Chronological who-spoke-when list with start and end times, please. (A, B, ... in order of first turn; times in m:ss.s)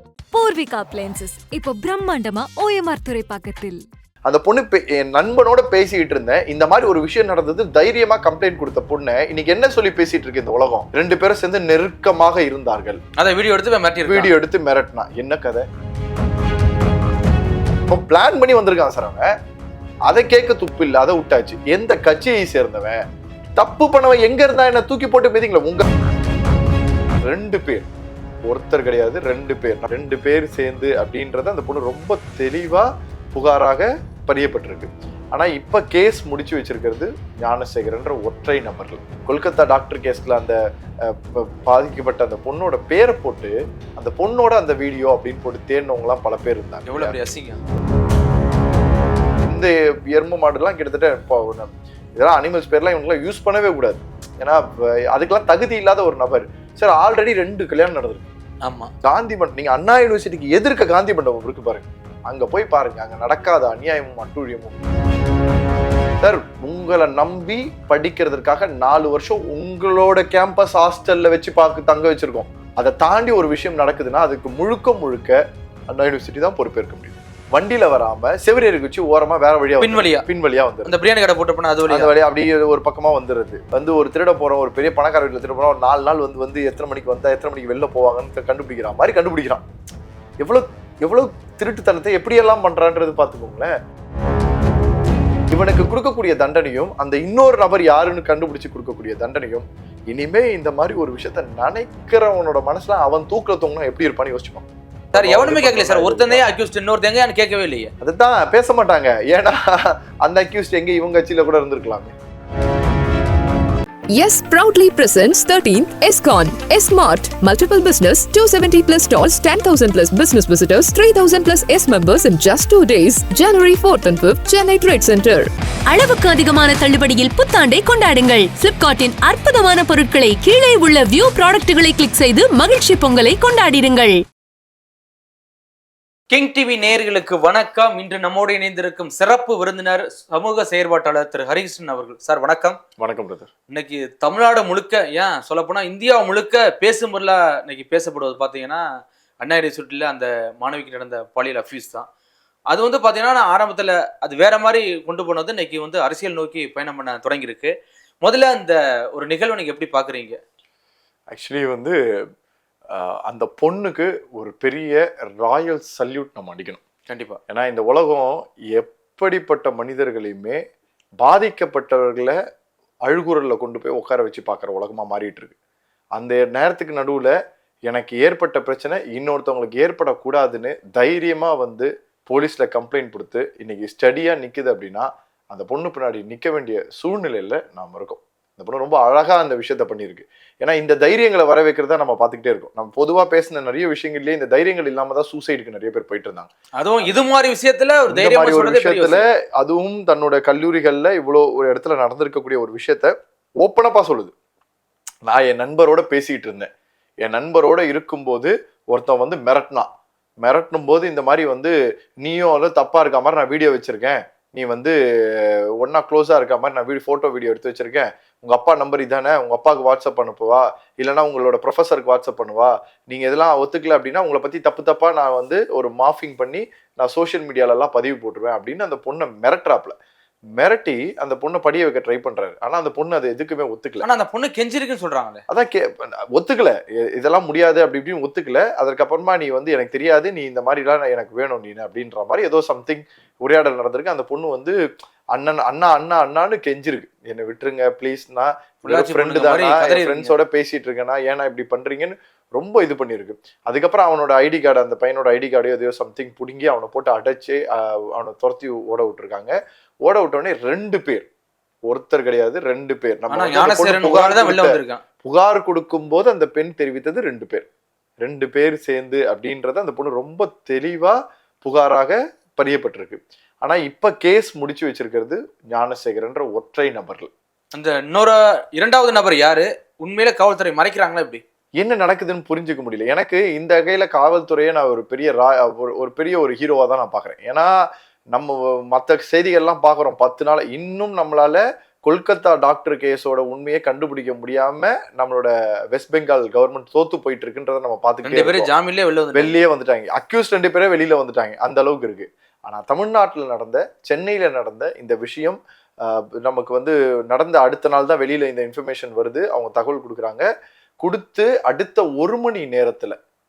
0:00.3-0:03.8 A
0:04.2-0:13.0 B
0:13.2-0:14.3 C
0:14.1-0:15.7 B
0:17.9-0:19.3 B
0:20.1-0:23.0 B
0:23.6-0:25.8 B
0:27.2-0:27.9 B
0:28.4-0:47.1 B
0:46.9-0:47.6 C
0:49.4-0:58.3 B
0:58.6-0:58.9 C
0:59.0-1:04.8 B
1:06.2-1:15.4 B
1:15.9-1:20.9 B
1:19.8-1:20.2 C
1:20.8-1:22.1 C
1:21.9-1:29.6 B
1:30.4-1:33.7 B
1:35.5-1:46.4 B
1:45.1-1:47.9 C
1:48.0-1:52.1 B
1:54.1-2:05.5 D
2:05.9-2:14.2 E
2:16.3-2:22.8 C
2:23.0-2:23.5 B
2:23.7-2:28.8 C
2:29.4-2:32.0 C
2:32.7-2:40.4 C
2:41.3-2:42.0 B
2:42.9-2:46.8 B
2:47.1-2:47.4 C
2:47.5-2:50.6 B
2:51.2-2:52.4 B
2:53.0-2:55.5 B
2:56.1-2:57.3 B
2:57.9-3:16.5 B
3:16.8-3:19.2 C
3:18.1-3:24.3 B
3:25.2-3:26.7 B
3:27.2-3:29.9 B
3:30.4-3:49.9 B
3:50.5-3:54.0 B
3:54.0-3:55.4 C
3:55.5-4:04.8 B
4:05.3-4:21.3 B
4:08.8-4:10.3 C
4:21.9-4:27.7 B
4:23.3-4:25.0 C
4:28.2-4:37.3 B
4:37.7-4:41.4 C
4:41.8-4:47.7 B
4:48.3-4:58.7 B
4:58.2-4:59.5 C
4:59.3-5:10.4 B
5:11.0-5:13.2 B